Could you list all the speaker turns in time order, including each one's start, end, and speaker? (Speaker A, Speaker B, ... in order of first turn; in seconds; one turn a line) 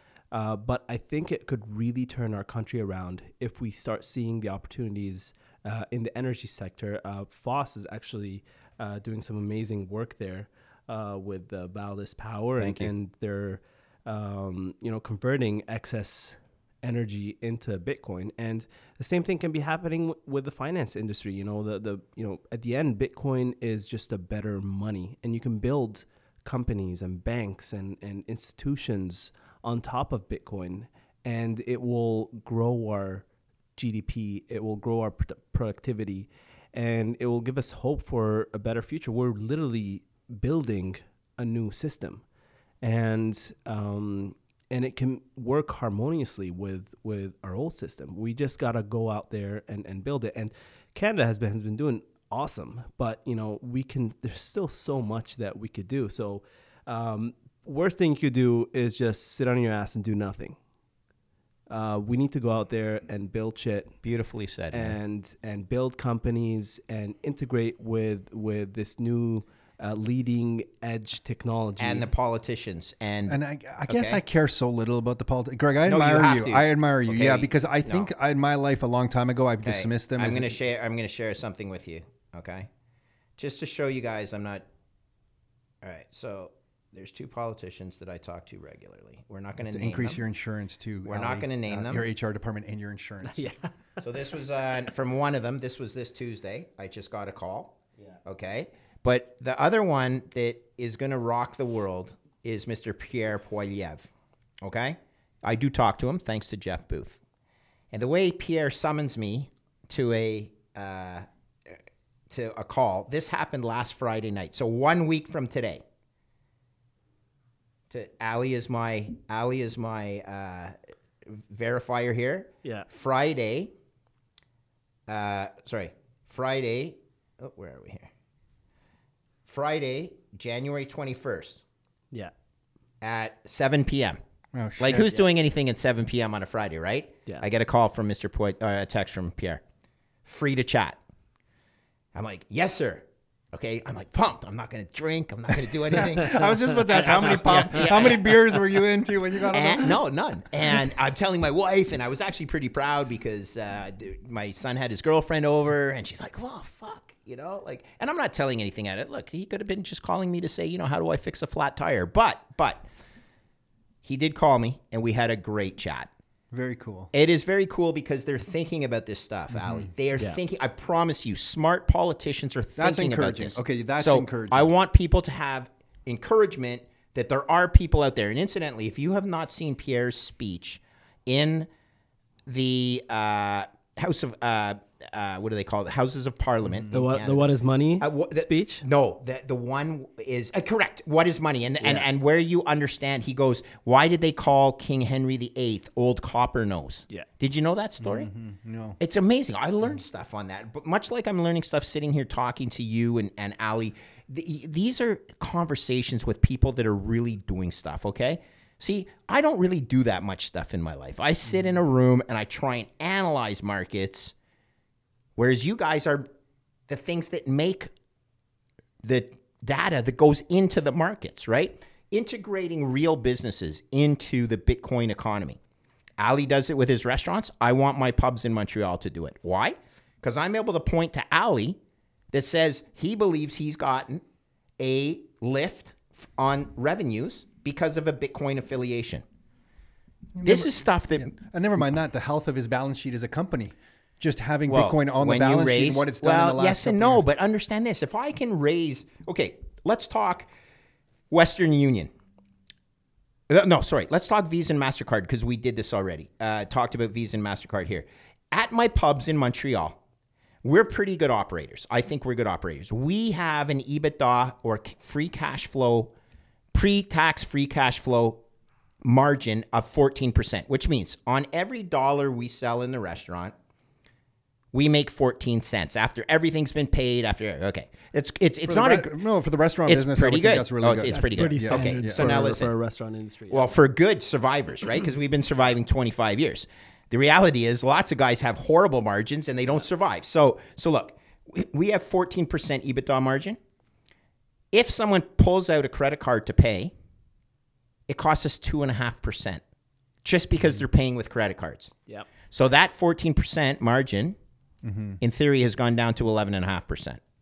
Speaker A: 0.3-33.2
Speaker B: 12.6-12.9
Speaker A: 33.8-42.2
Speaker A: 42.8-60.6
Speaker A: 61.7-63.9
Speaker B: 64.0-65.0
Speaker A: 64.7-72.1
Speaker B: 71.8-74.2
Speaker C: 73.3-80.6
Speaker B: 75.8-78.1
Speaker B: 79.6-82.7
Speaker B: 83.4-84.6
Speaker B: 85.8-90.2
Speaker C: 89.7-93.4
Speaker B: 91.0-92.0
Speaker A: 93.3-93.6
Speaker B: 94.0-104.1
Speaker B: 104.6-107.2
Speaker B: 107.9-111.2
Speaker B: 112.3-115.8
Speaker B: 117.9-123.7
Speaker B: 125.1-128.1
Speaker B: 129.4-131.6
Speaker B: 133.0-134.2
Speaker C: 134.5-135.1
Speaker B: 134.8-139.6
Speaker B: 140.2-141.0
Speaker B: 142.1-148.4
Speaker C: 145.9-150.0
Speaker A: 147.2-147.5
Speaker B: 149.5-162.8
Speaker B: 164.0-166.1
Speaker C: 166.5-167.1
Speaker B: 167.1-181.7
Speaker C: 169.5-169.9
Speaker C: 172.8-174.7
Speaker B: 182.4-198.3
Speaker A: 186.9-188.8
Speaker A: 191.8-192.1
Speaker C: 198.0-199.0
Speaker B: 199.0-214.3
Speaker B: 215.3-216.2
Speaker B: 216.9-217.9
Speaker B: 219.0-225.6
Speaker B: 226.2-231.8
Speaker B: 232.3-234.2
Speaker B: 234.8-239.2
Speaker C: 240.3-247.2
Speaker B: 240.4-241.3
Speaker B: 244.7-250.5
Speaker B: 251.3-252.1
Speaker B: 253.5-260.0
Speaker B: 260.6-266.1
Speaker B: 266.7-268.4
Speaker B: 269.0-273.5
Speaker B: 274.7-279.2
Speaker C: 278.6-282.4
Speaker B: 279.9-282.7
Speaker A: 281.1-283.7
Speaker B: 283.5-293.6
Speaker B: 294.7-296.9
Speaker B: 298.1-299.6
Speaker B: 300.2-301.9
Speaker B: 302.5-304.4
Speaker C: 304.8-305.2
Speaker B: 305.2-307.2